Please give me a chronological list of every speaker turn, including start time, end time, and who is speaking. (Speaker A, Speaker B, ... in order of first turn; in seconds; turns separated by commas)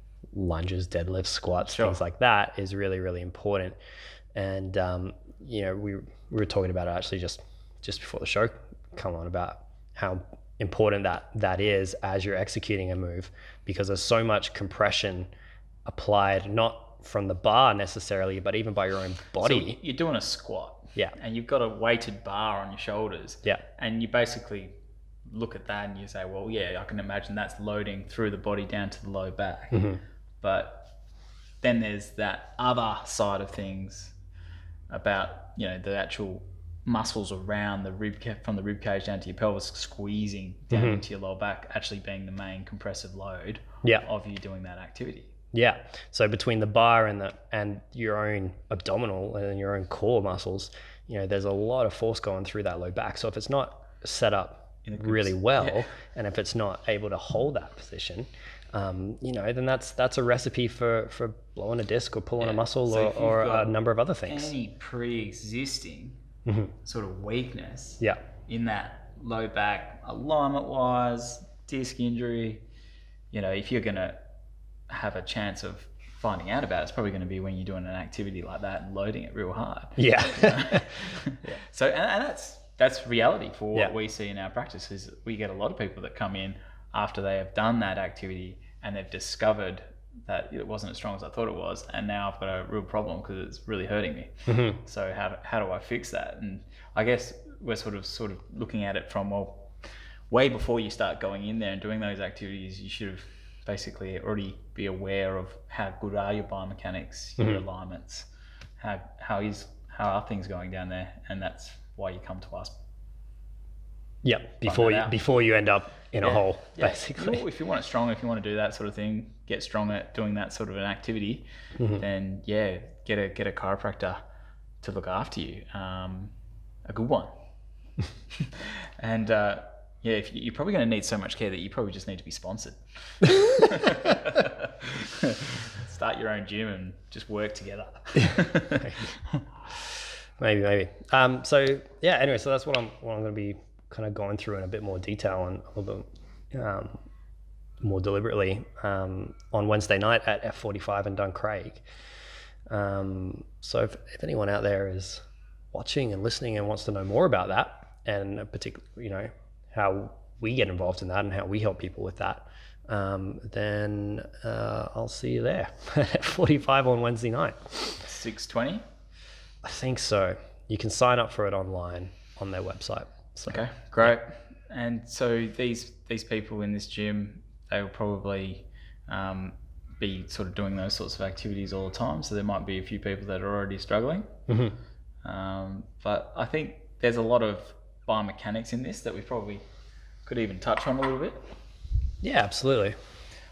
Speaker A: 0.3-3.8, Speaker B: 1.6-2.0, Speaker A: 4.3-15.3, Speaker A: 15.8-19.8, Speaker B: 19.4-24.7, Speaker B: 25.3-29.9, Speaker A: 29.7-30.0, Speaker B: 30.4-30.9, Speaker B: 31.6-34.1, Speaker B: 34.9-45.3, Speaker A: 40.7-41.0, Speaker A: 45.5-64.5, Speaker B: 54.8-55.9, Speaker B: 62.4-66.2, Speaker A: 66.4-66.7, Speaker B: 66.8-72.6, Speaker B: 73.3-74.2, Speaker B: 74.9-99.7, Speaker A: 80.0-80.9, Speaker A: 94.5-94.8, Speaker B: 100.3-108.3, Speaker A: 107.4-107.6, Speaker B: 108.8-112.8, Speaker A: 114.2-117.4, Speaker B: 114.6-115.2, Speaker B: 116.2-124.2, Speaker A: 121.8-122.0, Speaker B: 124.8-126.3, Speaker B: 126.8-127.3, Speaker B: 128.3-139.4, Speaker A: 138.2-139.1, Speaker A: 140.4-147.0, Speaker A: 147.8-151.8, Speaker A: 152.7-155.2, Speaker A: 155.7-168.0, Speaker B: 168.0-168.8, Speaker A: 169.6-174.1, Speaker B: 173.5-184.3, Speaker A: 184.5-184.8, Speaker B: 185.2-189.6, Speaker B: 190.2-191.4, Speaker A: 192.2-192.9